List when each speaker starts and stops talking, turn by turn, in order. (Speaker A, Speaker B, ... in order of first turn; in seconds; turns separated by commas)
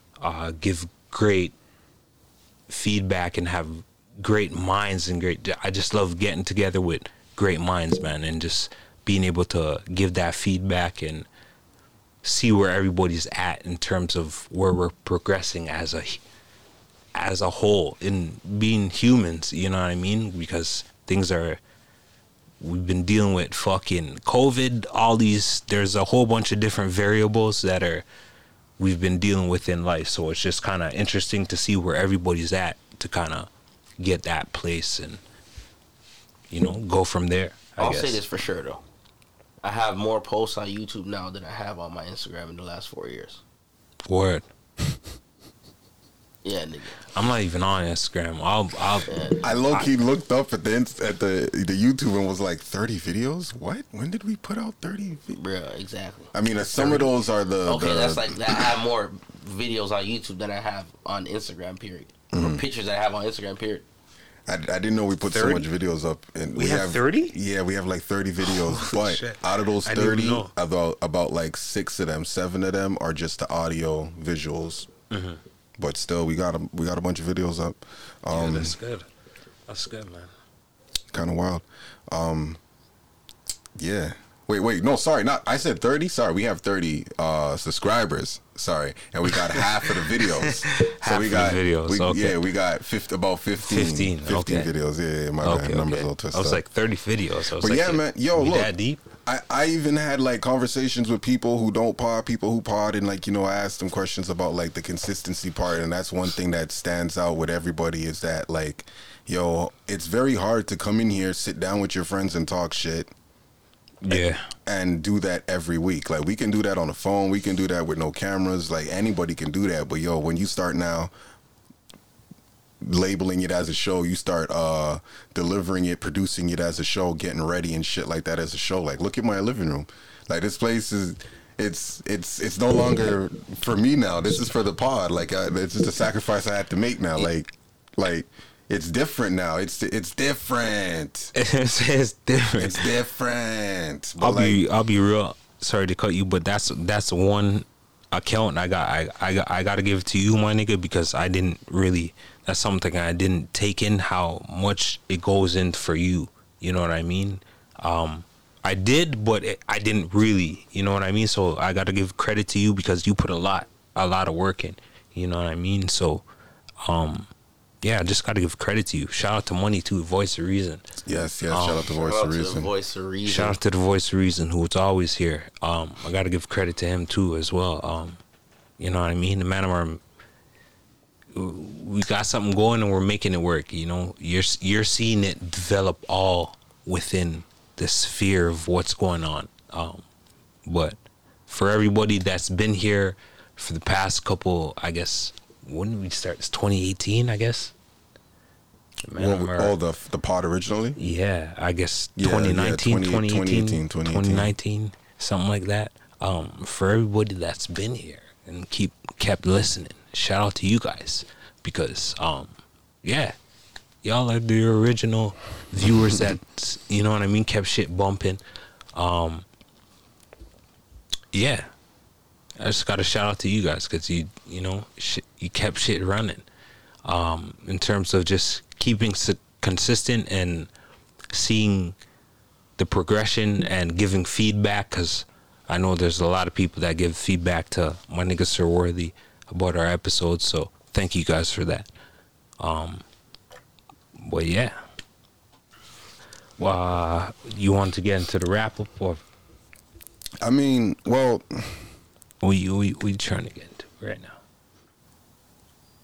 Speaker A: 0.2-1.5, Speaker A: 2.7-11.2, Speaker A: 12.2-16.2, Speaker A: 17.1-21.6, Speaker A: 22.6-28.0, Speaker A: 28.8-35.2, Speaker A: 36.5-38.2, Speaker B: 37.8-38.8, Speaker B: 39.6-43.4, Speaker A: 44.1-44.4, Speaker B: 46.4-47.0, Speaker A: 47.1-49.1, Speaker B: 49.1-49.4, Speaker C: 49.4-55.4, Speaker B: 55.3-57.1, Speaker C: 56.3-58.3, Speaker B: 57.6-63.8, Speaker C: 62.3-62.6, Speaker C: 64.5-74.9, Speaker A: 65.3-65.7, Speaker A: 66.5-67.3, Speaker A: 68.4-70.5, Speaker A: 75.1-75.4, Speaker C: 75.8-78.7, Speaker A: 78.3-79.0, Speaker A: 79.7-80.3, Speaker C: 81.1-82.6, Speaker C: 83.8-96.6, Speaker A: 90.8-92.3, Speaker A: 93.6-94.7, Speaker A: 95.4-99.0, Speaker C: 97.6-98.7, Speaker C: 99.2-113.1, Speaker A: 114.0-114.4, Speaker C: 114.1-121.1, Speaker C: 122.8-141.3, Speaker A: 141.3-142.9, Speaker C: 142.6-144.6, Speaker A: 144.2-166.2, Speaker A: 166.8-167.3, Speaker A: 167.8-170.8, Speaker C: 171.0-172.7, Speaker A: 171.5-171.8, Speaker B: 171.9-173.6, Speaker A: 173.2-178.2, Speaker A: 178.8-180.0, Speaker A: 181.3-190.0, Speaker A: 190.7-190.9, Speaker A: 191.5-197.7, Speaker A: 199.1-199.7, Speaker C: 199.2-201.0, Speaker A: 201.0-212.5, Speaker C: 202.2-204.5, Speaker A: 213.0-213.3, Speaker A: 214.0-218.4, Speaker A: 218.9-219.4, Speaker A: 221.3-221.7, Speaker A: 222.6-226.4, Speaker A: 227.0-230.7, Speaker A: 231.3-231.9, Speaker A: 232.8-241.9, Speaker A: 242.6-243.0, Speaker A: 244.2-244.8, Speaker A: 246.6-249.2, Speaker C: 250.4-251.8, Speaker A: 252.4-254.4